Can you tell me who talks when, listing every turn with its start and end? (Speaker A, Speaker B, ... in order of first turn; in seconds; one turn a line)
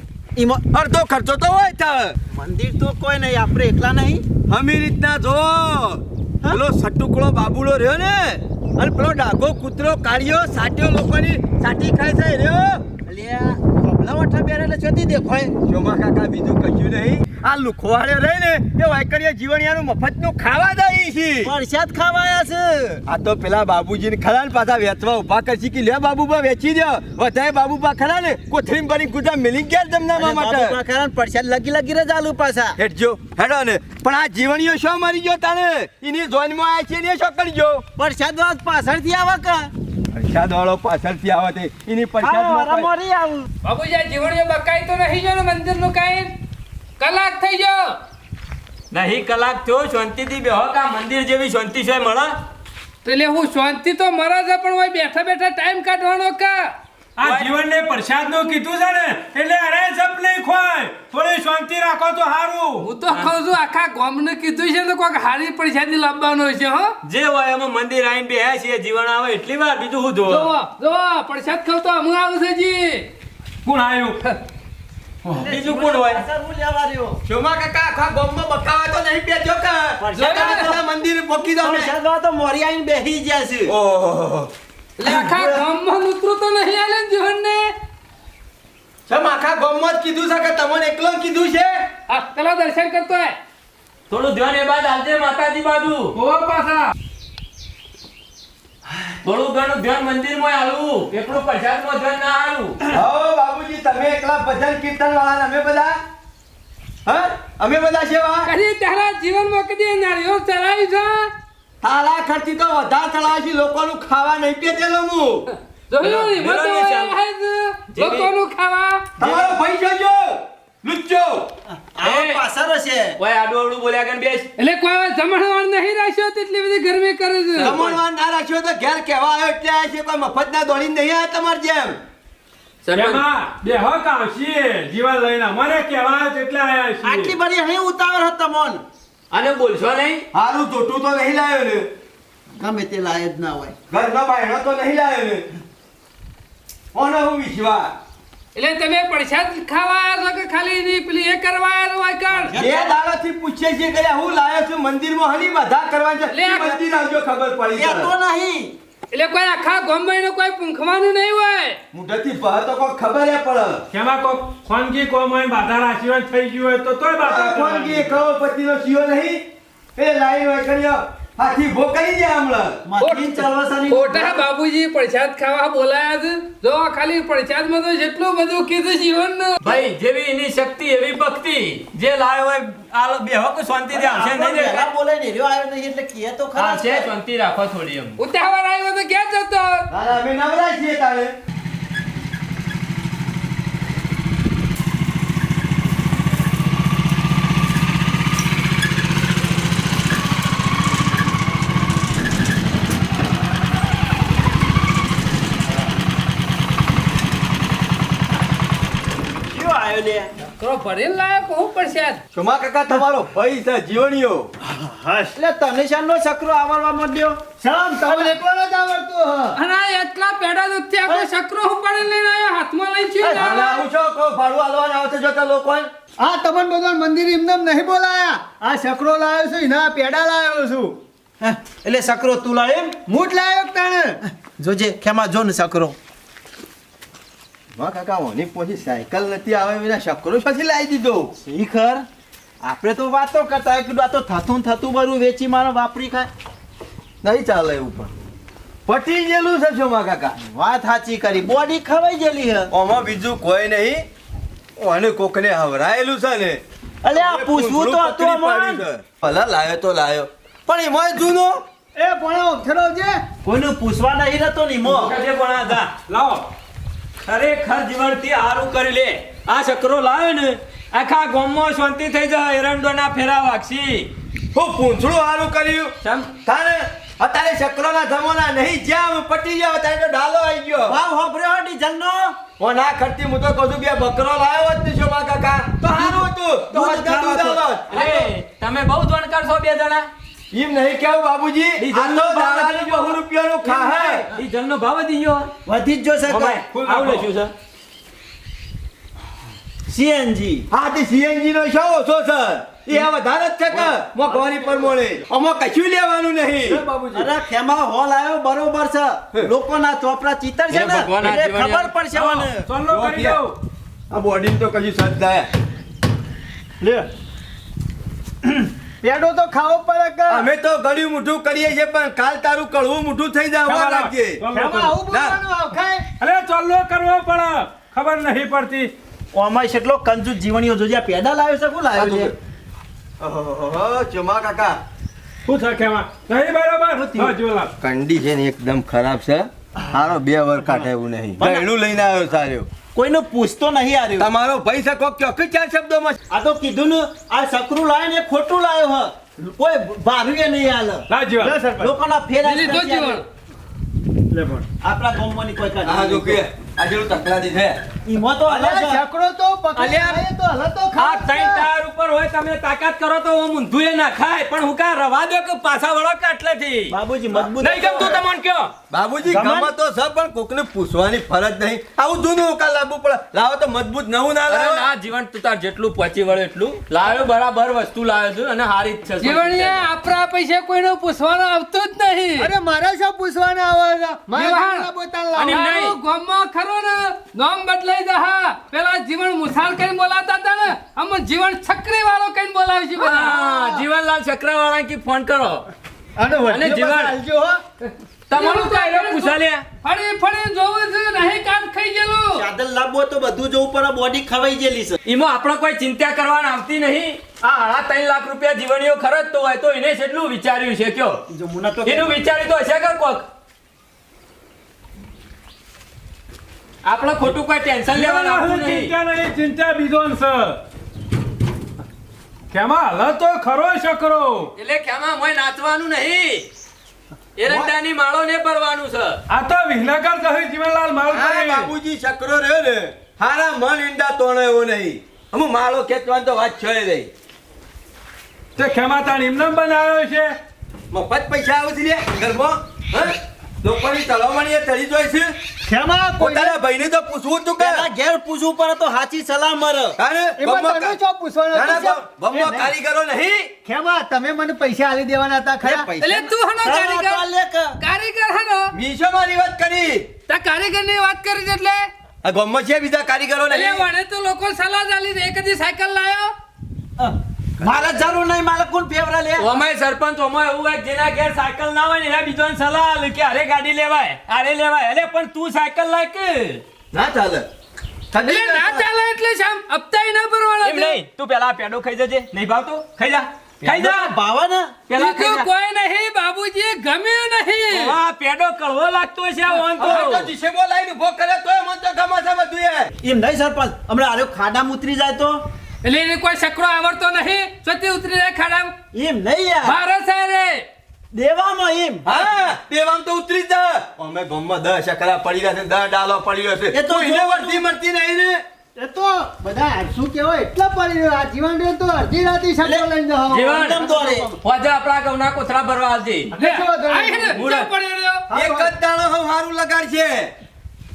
Speaker A: 0.3-0.7
Speaker B: 0.7-2.1
Speaker A: 2.3-4.2
Speaker B: 4.5-12.8
Speaker A: 13.1-15.5
Speaker B: 15.7-21.5
Speaker A: 21.4-23.0
Speaker B: 23.1-30.8
Speaker A: 30.1-32.8
Speaker B: 32.8-37.8
Speaker A: 38.0-39.7
Speaker B: 40.1-42.9
Speaker A: 42.2-43.5
Speaker C: 43.6-46.3
Speaker C: 47.0-48.0
Speaker D: 48.9-52.4
Speaker C: 53.0-56.7
Speaker E: 57.2-62.9
Speaker D: 57.2-57.5
Speaker C: 62.8-66.9
Speaker D: 63.1-63.3
Speaker D: 67.0-70.5
Speaker C: 70.2-73.1
Speaker E: 73.6-74.2
Speaker B: 75.3-76.2
Speaker A: 75.4-77.2
Speaker B: 77.2-81.9
Speaker A: 80.0-80.8
Speaker C: 80.1-80.7
Speaker A: 81.5-83.7
Speaker B: 83.7-84.5
Speaker C: 85.0-87.7
Speaker A: 85.0-85.6
Speaker B: 89.1-91.9
Speaker C: 92.1-93.4
Speaker D: 94.1-96.2
Speaker E: 96.2-96.9
Speaker D: 99.2-102.8
Speaker B: 102.9-106.0
Speaker B: 107.0-108.5
Speaker C: 108.4-111.3
Speaker B: 111.8-115.5
Speaker C: 115.9-119.0
Speaker D: 116.0-117.1
Speaker D: 117.9-118.3
Speaker B: 119.2-121.5
Speaker A: 121.7-123.2
Speaker D: 122.0-122.5
Speaker D: 123.2-124.5
Speaker C: 124.6-127.8
Speaker D: 127.6-128.0
Speaker B: 127.6-132.0
Speaker D: 132.8-133.2
Speaker E: 132.9-137.3
Speaker A: 137.0-138.8
Speaker D: 139.3-140.2
Speaker B: 140.3-141.9
Speaker A: 142.6-143.8
Speaker B: 143.9-145.5
Speaker B: 146.9-147.9
Speaker C: 148.5-152.6
Speaker A: 152.4-153.0
Speaker B: 152.5-158.1
Speaker C: 156.3-156.8
Speaker A: 157.7-158.7
Speaker C: 159.1-161.8
Speaker B: 161.9-163.8
Speaker E: 163.9-168.2
Speaker B: 167.2-169.4
Speaker B: 169.9-172.8
Speaker A: 172.8-174.4
Speaker C: 173.0-179.6
Speaker D: 179.6-184.9
Speaker A: 183.9-187.1
Speaker D: 186.6-188.2
Speaker C: 188.2-189.8
Speaker B: 189.9-191.3
Speaker A: 209.5-210.3
Speaker C: 210.6-212.2
Speaker B: 212.3-214.5
Speaker A: 214.8-218.3
Speaker F: 217.6-219.6
Speaker C: 219.5-223.8
Speaker A: 223.2-223.5
Speaker B: 223.4-225.9
Speaker F: 226.2-231.0
Speaker A: 231.4-233.0
Speaker F: 233.1-234.2
Speaker A: 234.4-235.9
Speaker B: 237.8-241.3
Speaker A: 241.4-242.1
Speaker A: 242.6-246.3
Speaker B: 247.2-248.1
Speaker B: 248.8-250.4
Speaker A: 250.4-252.7
Speaker B: 252.7-254.0
Speaker B: 254.8-261.6
Speaker A: 257.0-258.8
Speaker F: 261.9-263.2
Speaker A: 263.4-265.1
Speaker D: 264.8-266.4
Speaker D: 267.2-274.1
Speaker B: 274.5-281.0
Speaker D: 276.0-276.3
Speaker A: 280.8-282.4
Speaker B: 282.6-288.1
Speaker A: 285.9-288.2
Speaker D: 287.9-290.1
Speaker B: 290.5-294.3
Speaker D: 291.8-293.1
Speaker A: 293.7-294.2
Speaker D: 293.9-295.5
Speaker A: 295.6-296.6
Speaker D: 296.3-297.5
Speaker E: 296.7-297.3
Speaker A: 299.9-300.7
Speaker B: 300.7-307.3
Speaker A: 306.7-312.7
Speaker D: 310.7-311.9
Speaker E: 312.1-313.5
Speaker B: 312.9-313.5
Speaker B: 314.1-315.5
Speaker F: 316.8-317.1
Speaker F: 318.5-320.5
Speaker B: 320.3-324.5
Speaker E: 323.6-325.1
Speaker F: 324.5-326.0
Speaker B: 325.1-325.4
Speaker E: 326.2-328.9
Speaker A: 329.3-332.3
Speaker B: 331.9-332.3
Speaker B: 333.2-334.8
Speaker E: 335.4-337.7
Speaker B: 337.8-342.7
Speaker A: 341.4-341.7
Speaker A: 342.9-344.3
Speaker B: 344.2-346.2
Speaker A: 346.3-351.1
Speaker E: 351.1-351.6
Speaker F: 351.4-351.9
Speaker A: 351.8-353.2
Speaker C: 352.4-353.2
Speaker F: 354.3-354.6
Speaker A: 354.8-356.4
Speaker B: 355.8-357.8
Speaker A: 358.0-359.0
Speaker F: 358.4-361.7
Speaker D: 359.8-360.2
Speaker D: 360.9-368.7
Speaker A: 366.9-368.2
Speaker B: 367.5-368.2
Speaker B: 368.9-374.9
Speaker A: 369.2-369.7
Speaker D: 374.5-379.9
Speaker C: 379.2-382.5
Speaker F: 382.4-385.6
Speaker C: 384.3-384.9
Speaker D: 385.3-385.9
Speaker C: 385.5-393.3
Speaker D: 393.0-395.7
Speaker F: 393.4-393.8
Speaker F: 396.1-397.6
Speaker D: 396.4-397.1
Speaker D: 398.3-399.6
Speaker C: 398.3-402.4
Speaker A: 402.3-405.0
Speaker D: 405.0-411.2
Speaker A: 411.3-412.2
Speaker D: 411.8-413.3
Speaker D: 416.8-418.9
Speaker E: 417.9-420.6
Speaker E: 422.5-424.5
Speaker D: 424.6-426.5
Speaker D: 427.4-429.2
Speaker B: 427.5-427.7
Speaker E: 429.3-431.7
Speaker B: 431.1-437.1
Speaker E: 438.6-440.4
Speaker B: 440.9-445.3
Speaker F: 445.6-446.6
Speaker B: 446.2-447.9
Speaker A: 447.6-449.9
Speaker B: 449.9-451.0
Speaker F: 450.4-452.7
Speaker B: 451.5-453.5
Speaker F: 453.6-455.9
Speaker A: 455.6-457.8
Speaker C: 456.0-457.2
Speaker C: 457.8-458.7
Speaker B: 458.7-460.1
Speaker C: 460.3-461.9
Speaker B: 462.2-463.8
Speaker C: 463.5-466.3
Speaker A: 467.0-469.5
Speaker B: 467.6-468.1
Speaker D: 469.4-476.6
Speaker B: 476.9-477.5
Speaker B: 478.1-478.9
Speaker C: 478.2-481.0
Speaker D: 480.6-484.1
Speaker A: 483.6-484.8
Speaker D: 484.9-485.5
Speaker C: 484.9-488.0
Speaker D: 487.7-490.3
Speaker B: 489.8-492.9
Speaker A: 493.0-495.4
Speaker C: 495.8-498.7
Speaker A: 498.9-499.8
Speaker C: 499.6-500.6
Speaker A: 501.1-502.1
Speaker B: 502.0-508.4
Speaker A: 506.7-507.7
Speaker F: 508.8-514.4
Speaker A: 512.6-512.9
Speaker D: 513.3-513.9
Speaker A: 513.5-514.4
Speaker D: 514.4-516.3
Speaker F: 516.3-517.4
Speaker C: 516.4-518.2
Speaker D: 517.3-517.7
Speaker F: 518.3-518.7
Speaker B: 518.3-520.3